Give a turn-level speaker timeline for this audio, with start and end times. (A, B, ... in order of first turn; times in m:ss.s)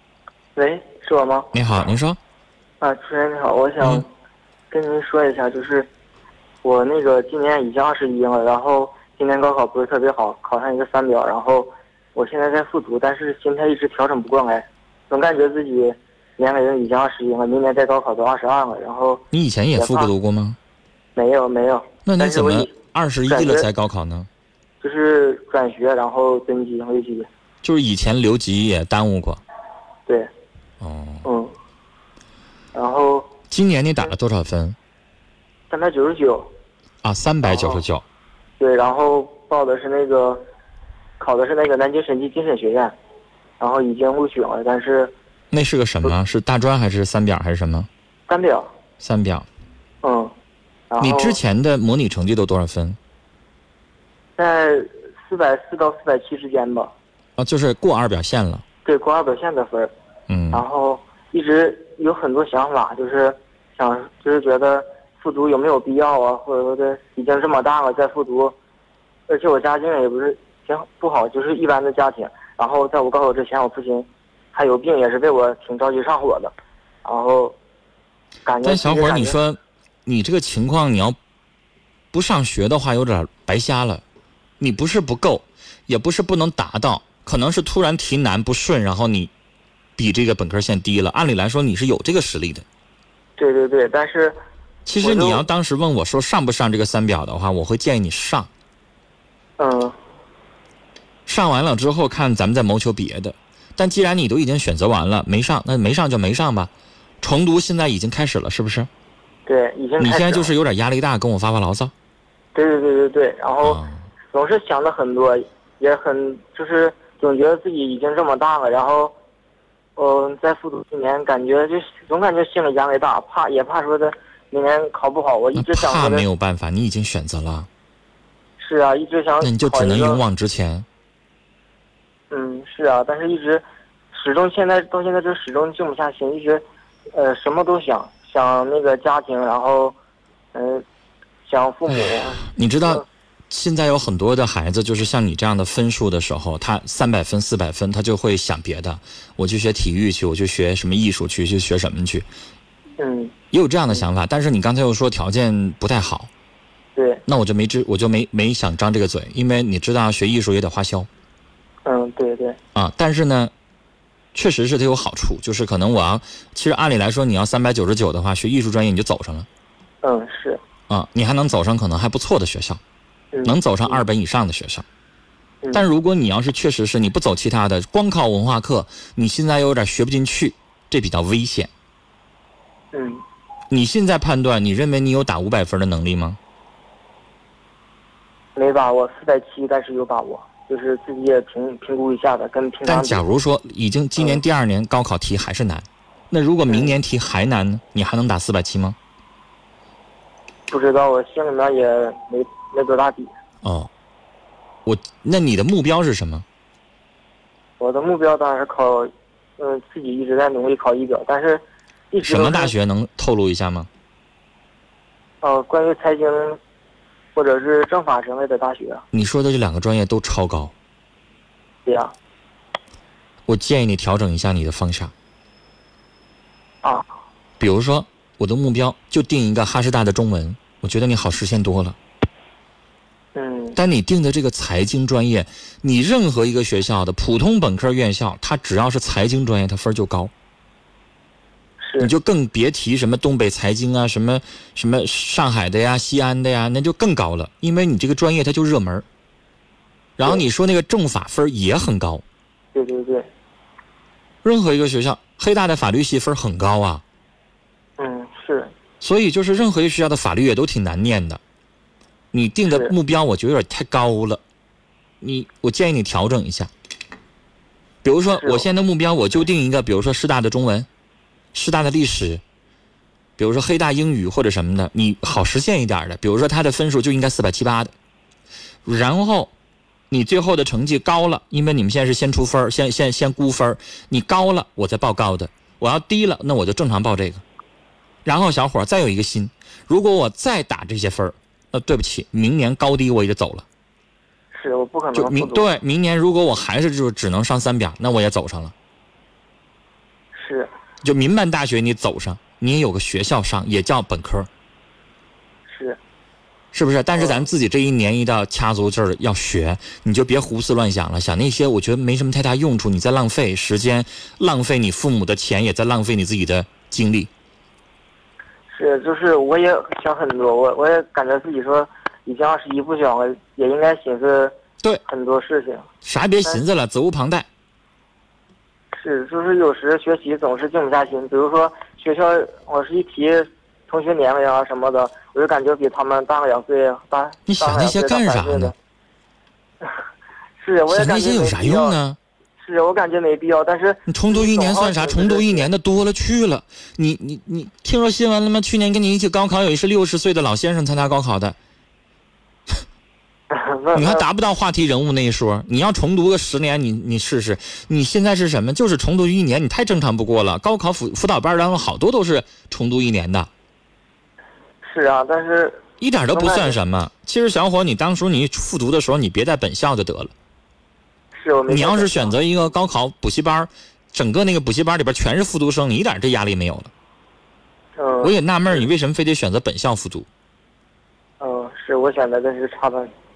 0:00.6-0:01.5 A
0:01.5-0:02.2 B
0:02.8-0:04.1 A
0:04.7-0:05.9 A
0:06.6-0:19.2 A
0:19.3-0:20.6 B
0:19.8-0:20.1 A
0:21.2-0:22.7 A
0:22.0-0:24.3 B
0:23.3-0:23.7 A
0:24.8-0:27.3 A
0:27.6-0:29.4 B
0:30.8-0:31.2 B
0:31.2-0:31.5 A
0:32.8-0:33.3 A
0:33.5-0:34.8 B
0:35.7-0:36.5 A
0:37.0-0:38.0 B
0:37.4-0:37.8 A
0:38.6-0:40.4 A
0:41.2-0:42.9 A
0:43.6-0:45.1 A
0:45.5-0:47.9 B
0:48.3-0:48.7 A
0:49.0-0:49.5 B
0:50.0-0:50.3 A
0:50.9-0:51.4 A
0:51.0-0:53.0 B
0:54.4-0:56.9 A
0:57.4-0:58.6 B
0:58.8-0:59.9 A
1:00.3-1:00.6 B
1:00.5-1:08.6 A
1:09.3-1:16.5 A
1:17.0-1:17.6 A
1:18.5-1:19.4 A
1:18.6-1:21.2 B
1:22.1-1:24.0 B
1:24.6-1:29.3 B
1:30.0-1:32.6 B
1:33.4-1:34.4 A
1:34.9-1:38.5 B
1:35.0-1:35.4 A
1:39.6-1:40.0 A
1:41.3-1:46.7 B
1:47.2-1:48.9 B
1:49.5-1:50.5 A
1:50.0-1:51.9 B
1:52.6-1:53.8 A
1:53.6-1:54.0 B
1:54.3-1:59.1 A
2:00.0-2:06.3 A
2:05.6-2:07.7 B
2:08.6-2:10.2 A
2:09.4-2:10.9 B
2:12.3-2:16.6 A
2:17.1-2:20.0 A
2:20.5-2:20.8 A
2:21.4-2:23.0 A
2:22.5-2:32.3 B
2:33.0-2:33.4 A
2:33.5-2:36.3 B
2:37.0-2:37.2 A
2:37.3-2:41.1 B
2:41.8-2:42.6 A
2:42.8-2:43.5 B
2:44.4-2:49.5 B
2:50.0-2:50.6 A
2:50.9-2:52.8 B
2:53.3-2:54.0 A
2:53.4-2:54.8 B
2:55.7-3:01.7 B
3:02.9-3:03.2 A
3:03.7-3:06.4 B
3:08.6-3:13.2 A
3:12.9-3:19.0 B
3:14.2-3:14.4 A
3:16.7-3:16.9 A
3:20.7-3:23.4 A
3:23.6-3:23.9 B
3:24.9-3:26.4 B
3:27.8-3:32.7 A
3:32.2-3:33.9 B
3:35.4-3:36.6 A
3:37.4-3:39.0 A
3:39.1-3:40.7 B
3:41.9-3:42.1 A
3:43.5-3:45.1 B
3:47.6-3:52.0 B
3:53.4-3:53.8 A
3:53.8-4:00.3 B
4:01.8-4:02.1 A
4:02.0-4:09.0 B
4:10.2-4:12.2 B
4:12.8-4:13.3 A
4:14.4-4:17.0 B
4:18.0-4:18.7 A
4:19.0-4:21.4 B
4:22.3-4:24.4 B
4:22.7-4:22.9 A
4:25.2-4:26.7 B
4:28.0-4:30.9 B
4:28.4-4:28.7 A
4:31.5-4:32.4 B
4:33.4-4:37.9 B
4:38.8-4:39.5 B
4:40.1-4:47.4 B
4:48.2-4:53.7 B
4:54.5-4:55.7 A
4:55.2-4:58.7 B
5:00.4-5:00.7 A
5:01.0-5:04.5 B
5:05.7-5:06.0 A
5:06.7-5:17.3 B
5:07.2-5:07.4 A
5:18.7-5:24.5 A
5:25.1-5:25.9 A
5:26.0-5:27.5 B
5:29.0-5:38.7 A
5:37.5-5:38.7 B
5:40.6-5:42.0 A
5:40.9-5:42.2 B
5:42.6-5:45.7 A
5:44.1-5:51.6 B
5:53.5-5:54.2 A
5:54.0-6:03.5 B
6:04.8-6:05.8 A
6:06.0-6:10.3 B
6:06.3-6:06.8 A
6:11.4-6:12.3 A
6:11.7-6:16.9 B
6:18.0-6:18.8 A
6:18.2-6:20.3 B
6:21.4-6:23.1 A